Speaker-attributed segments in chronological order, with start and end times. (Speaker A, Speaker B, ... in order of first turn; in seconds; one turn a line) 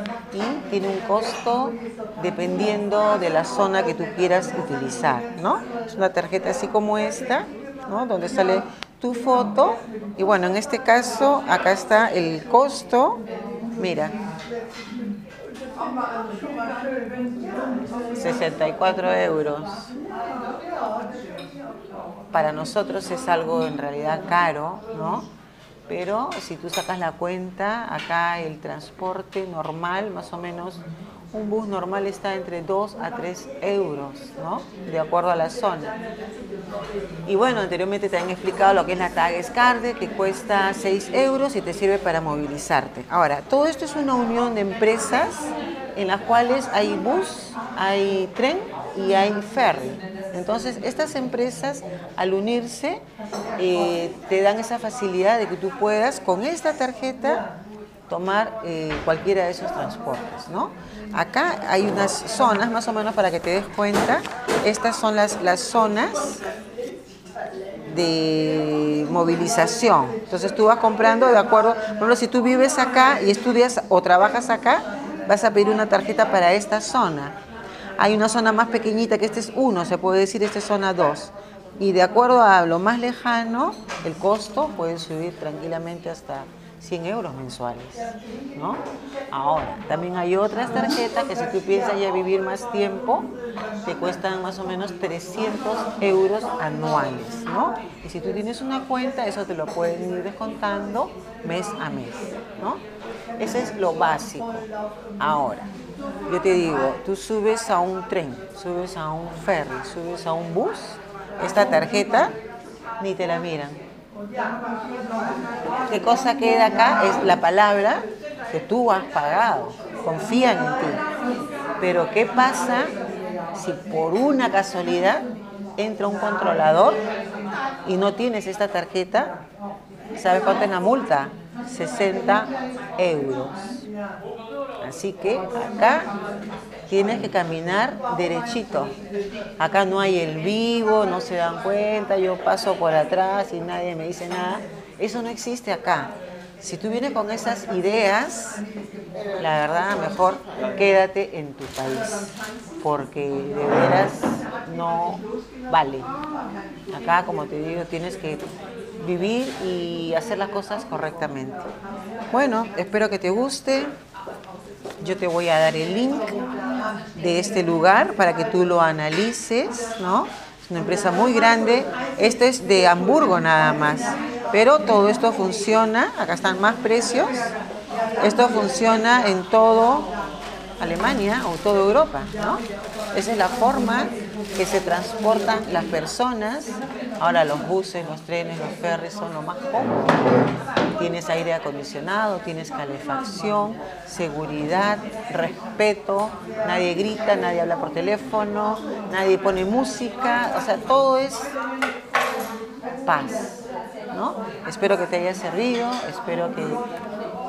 Speaker A: 0.3-13.2
Speaker A: 13.8-14.1
Speaker A: 18.2-19.9
Speaker A: 22.3-25.3
Speaker A: 25.9-36.0
Speaker A: 37.2-53.0
Speaker A: 53.6-57.4
Speaker A: 58.1-66.4
Speaker A: 67.9-77.3
Speaker A: 78.0-93.3
Speaker A: 93.8-102.8
Speaker A: 103.4-104.6
Speaker A: 105.2-105.7
Speaker A: 106.3-112.3
Speaker A: 113.0-113.8
Speaker A: 115.9-121.0
Speaker A: 121.8-122.9
Speaker A: 123.5-125.2
Speaker A: 125.8-127.0
Speaker A: 127.8-129.3
Speaker A: 130.2-133.8
Speaker A: 134.8-136.1
Speaker A: 136.9-138.9
Speaker A: 139.6-148.6
Speaker A: 149.4-152.3
Speaker A: 152.8-156.1
Speaker A: 156.9-158.4
Speaker A: 159.0-161.7
Speaker A: 162.3-163.9
Speaker A: 165.0-166.3
Speaker A: 167.2-177.4
Speaker A: 178.2-180.1
Speaker A: 180.8-182.6
Speaker A: 183.1-189.9
Speaker A: 191.0-201.5
Speaker A: 203.1-206.8